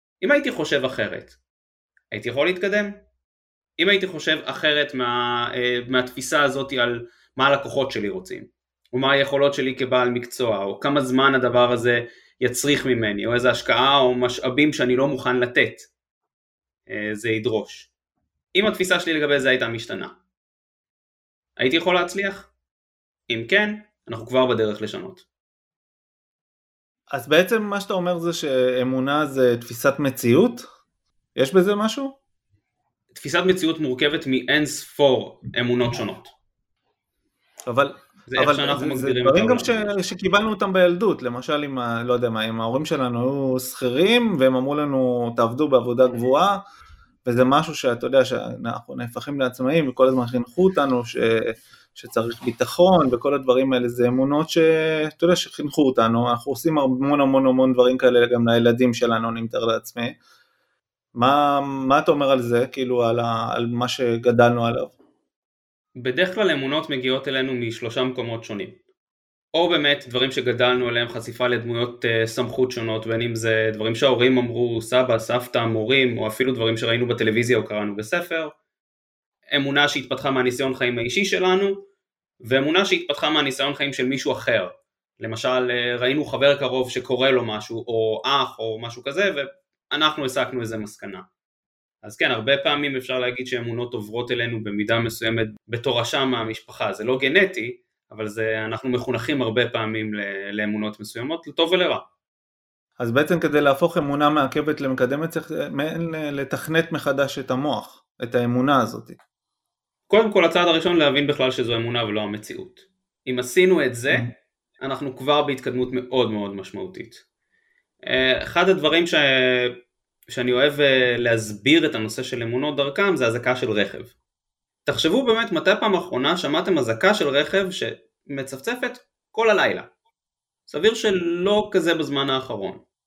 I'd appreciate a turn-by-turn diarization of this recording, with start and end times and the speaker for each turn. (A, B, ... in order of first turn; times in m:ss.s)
0:00.2-0:01.4 A
0:02.1-0:03.0 A
0:03.8-0:15.9 A
0:16.9-0:17.9 A
0:18.5-0:20.1 A
0:21.6-0:22.5 A
0:23.3-0:25.2 A
0:27.1-0:30.6 B
0:31.4-0:32.2 B
0:33.1-0:36.3 A
0:37.7-0:46.6 B
0:38.3-0:40.0 A
0:47.2-1:00.2 B
1:01.1-1:04.9 B
1:06.0-1:08.8 A
1:09.5-1:18.5 A
1:19.5-1:21.9 A
1:22.4-1:31.2 A
1:32.0-1:42.0 A
1:43.0-1:49.2 B
1:50.1-1:54.3 A
1:54.8-1:57.2 A
1:58.0-1:59.7 A
2:00.3-2:04.1 A
2:04.9-2:09.9 A
2:10.7-2:12.8 A